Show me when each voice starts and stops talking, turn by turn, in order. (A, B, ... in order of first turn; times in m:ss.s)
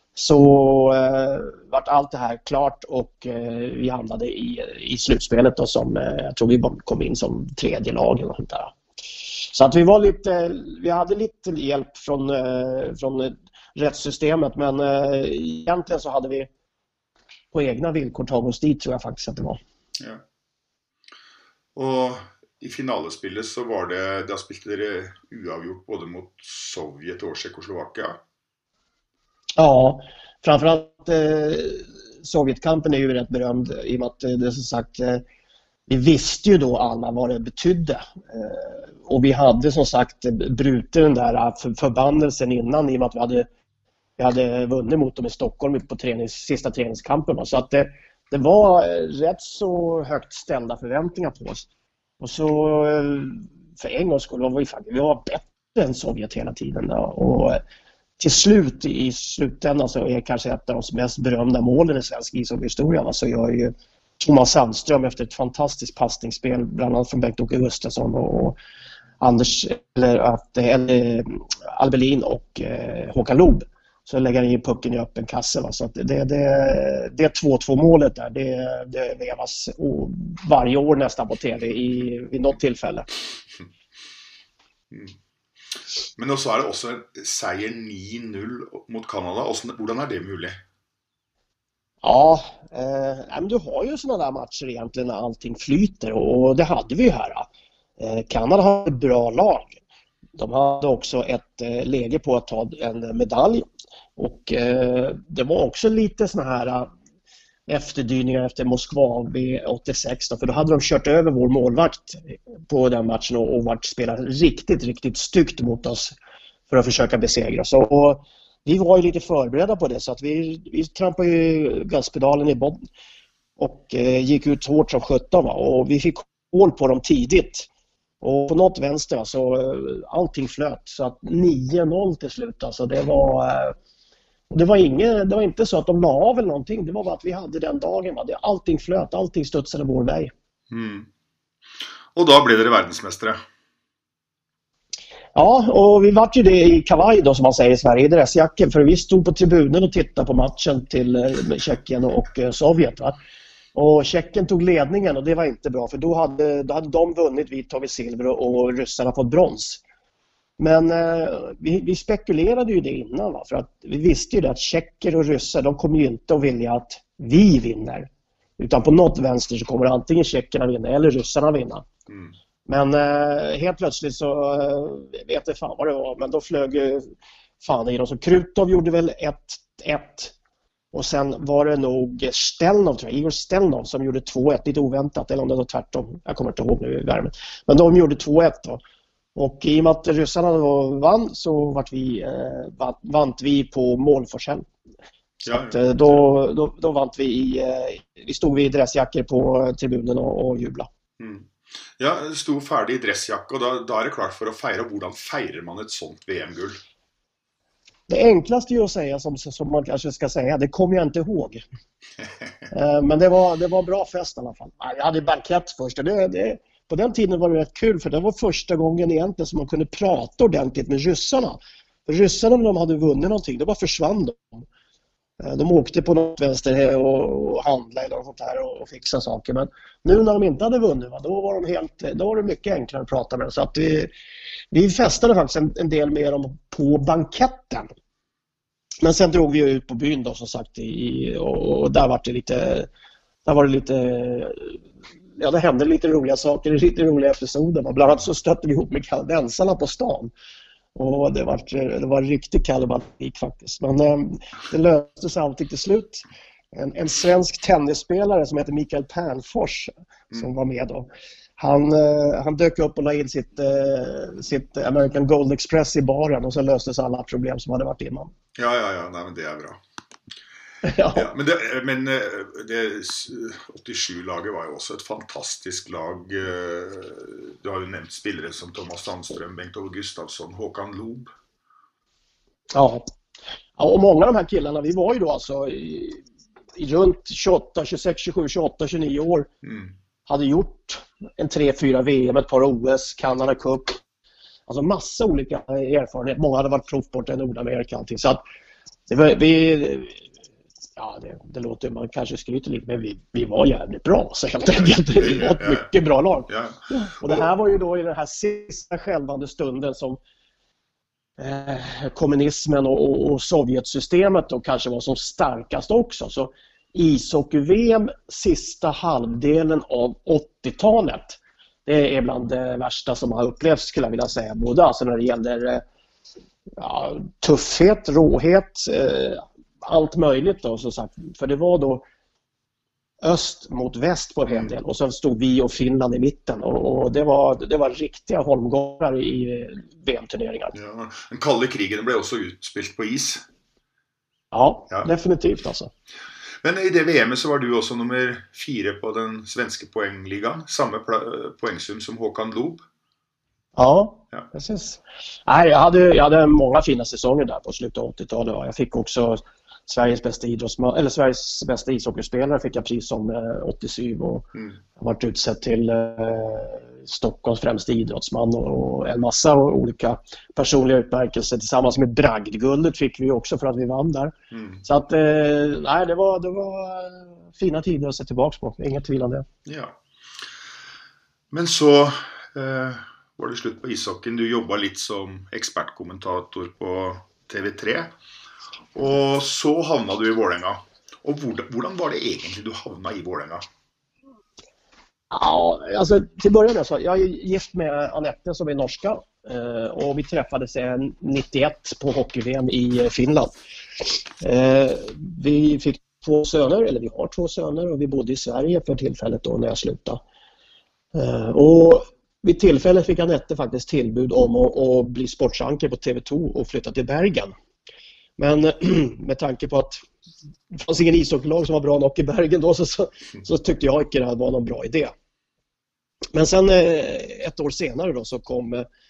0:00.2-0:08.7 A
0:09.5-0:16.5 A
0:17.5-0:19.6 A
0:21.8-0:28.2 B
0:29.6-0:35.2 A
0:35.9-0:43.5 A
0:44.2-0:51.7 A
0:52.2-0:57.6 A
0:58.2-1:08.6 A
1:09.2-1:23.1 A
1:26.2-1:30.6 B
1:32.0-1:37.5 A
1:38.0-1:39.8 A
1:40.4-1:43.7 A
1:44.2-1:46.9 A
1:47.7-1:56.1 A
1:56.7-2:02.8 A
2:03.6-2:07.7 A
2:08.2-2:13.8 A
2:14.5-2:20.3 A
2:20.7-2:21.1 B
2:22.1-2:23.4 B
2:25.4-2:33.2 A
2:33.8-2:39.8 A
2:40.6-2:51.9 A
2:52.7-2:57.1 A
2:57.6-3:00.3 A
3:00.9-3:08.8 A
3:09.4-3:14.7 A
3:15.4-3:16.2 B
3:15.5-3:20.9 A
3:21.2-3:26.8 B
3:28.1-3:31.6 A
3:32.7-3:44.6 A
3:45.4-3:54.1 A
3:54.7-3:57.9 A
3:59.0-4:02.9 A
4:03.5-4:04.8 A
4:05.4-4:10.3 A
4:11.0-4:28.3 A
4:28.6-4:29.8 B
4:30.8-4:31.3 A
4:31.1-4:41.3 B
4:42.7-4:43.0 A
4:43.8-4:46.2 A
4:46.8-4:49.5 A
4:49.6-4:49.9 B
4:50.3-4:54.0 A
4:54.7-4:58.4 A
4:59.1-5:00.2 A
5:01.0-5:10.2 A
5:04.8-5:05.9 B
5:06.5-5:07.4 B
5:11.4-5:25.8 A
5:26.8-5:32.0 A
5:33.2-5:40.7 A
5:34.5-5:34.8 B
5:40.7-5:43.4 B
5:44.5-5:45.9 A
5:46.6-5:52.8 B
5:53.8-6:14.3 A
6:14.5-6:14.8 B
6:14.8-6:19.5 A
6:19.7-6:20.0 B
6:21.5-6:28.1 B
6:29.0-6:33.6 B
6:35.3-6:43.5 A
6:44.4-6:50.2 A
6:51.2-6:57.5 A
6:58.4-7:00.0 A
7:00.8-7:05.1 A
7:06.3-7:08.9 A